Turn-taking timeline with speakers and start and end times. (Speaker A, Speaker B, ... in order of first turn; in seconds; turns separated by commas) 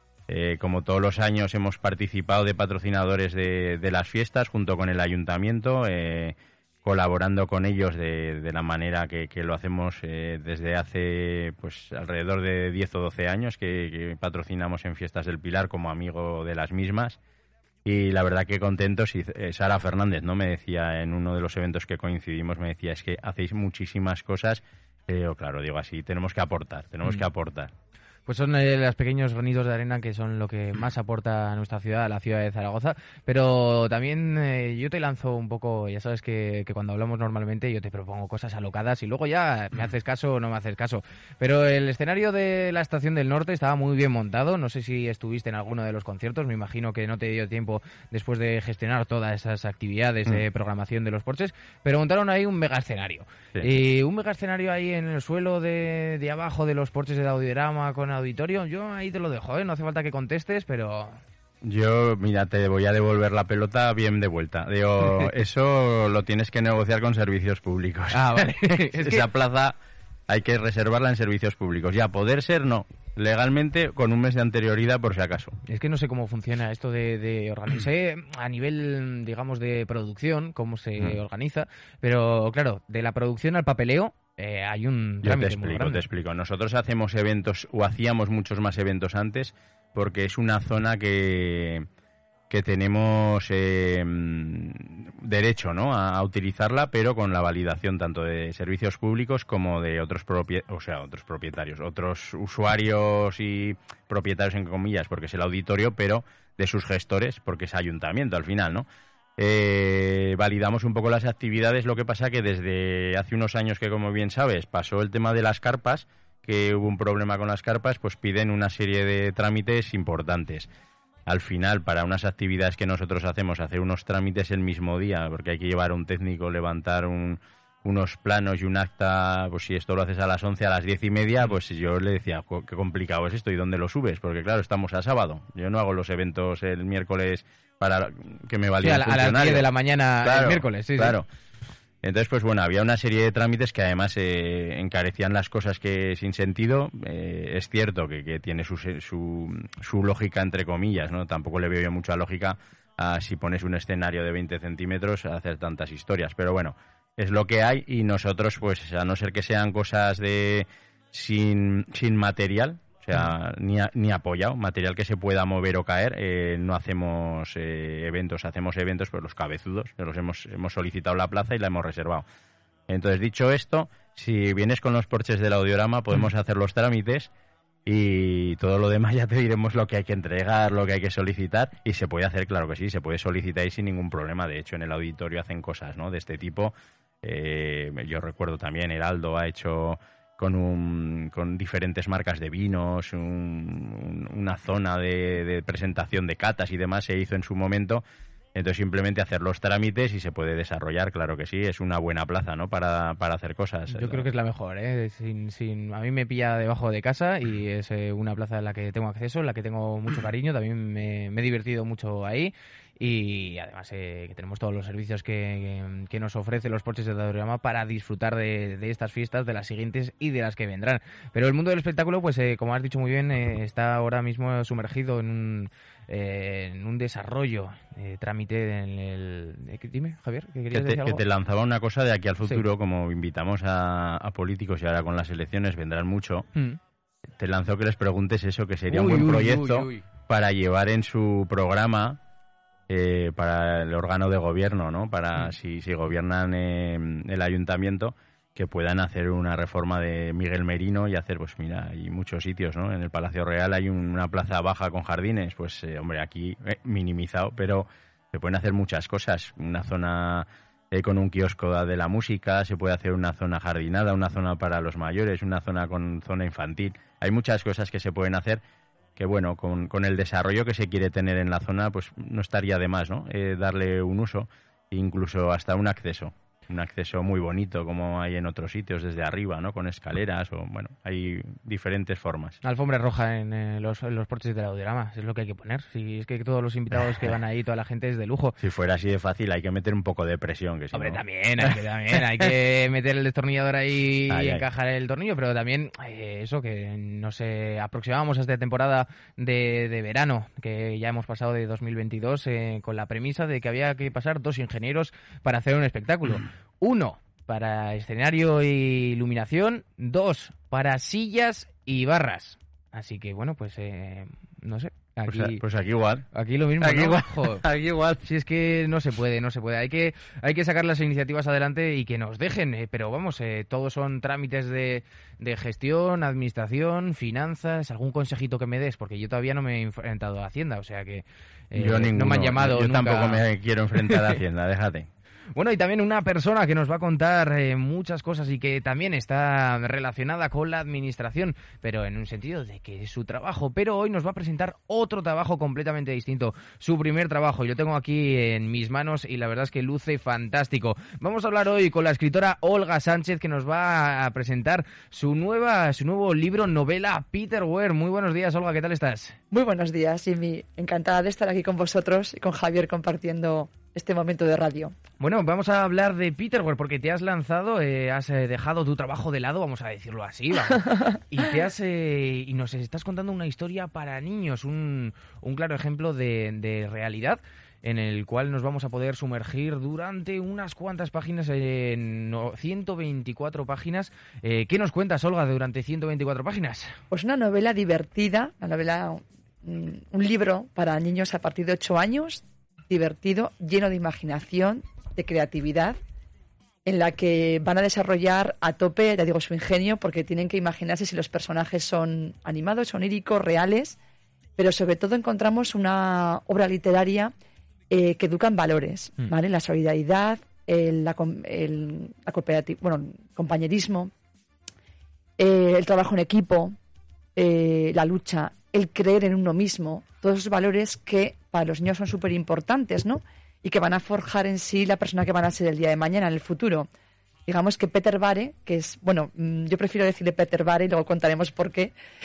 Speaker A: 0.3-17.2, Speaker A: 17.8-27.7, Speaker B: 28.3-61.2, Speaker A: 61.6-69.7, Speaker B: 68.1-69.2, Speaker A: 70.3-75.5, Speaker B: 75.7-86.0, Speaker A: 85.2-91.8, Speaker A: 92.5-108.8, Speaker A: 109.4-120.7, Speaker A: 121.2-139.7, Speaker B: 138.8-141.2, Speaker A: 140.2-141.2, Speaker A: 142.0-172.2, Speaker A: 172.9-177.3, Speaker A: 177.8-198.0, Speaker A: 198.5-204.3, Speaker B: 203.9-231.2, Speaker A: 230.7-236.4, Speaker A: 237.4-242.2, Speaker B: 238.9-240.0, Speaker A: 242.9-268.6, Speaker A: 269.1-282.6, Speaker B: 282.6-288.6, Speaker A: 288.6-291.2, Speaker B: 290.9-315.6, Speaker A: 294.3-294.6, Speaker A: 315.3-316.2, Speaker B: 316.3-317.6, Speaker A: 316.8-318.2, Speaker B: 318.2-333.4, Speaker A: 331.7-335.1, Speaker B: 334.0-334.4, Speaker B: 335.6-359.4, Speaker C: 359.5-364.9, Speaker B: 365.2-386.9, Speaker C: 387.1-396.0, Speaker C: 396.9-403.9, Speaker C: 404.6-407.3, Speaker C: 407.9-414.1, Speaker C: 415.4-416.7, Speaker C: 417.4-426.9, Speaker C: 427.4-431.9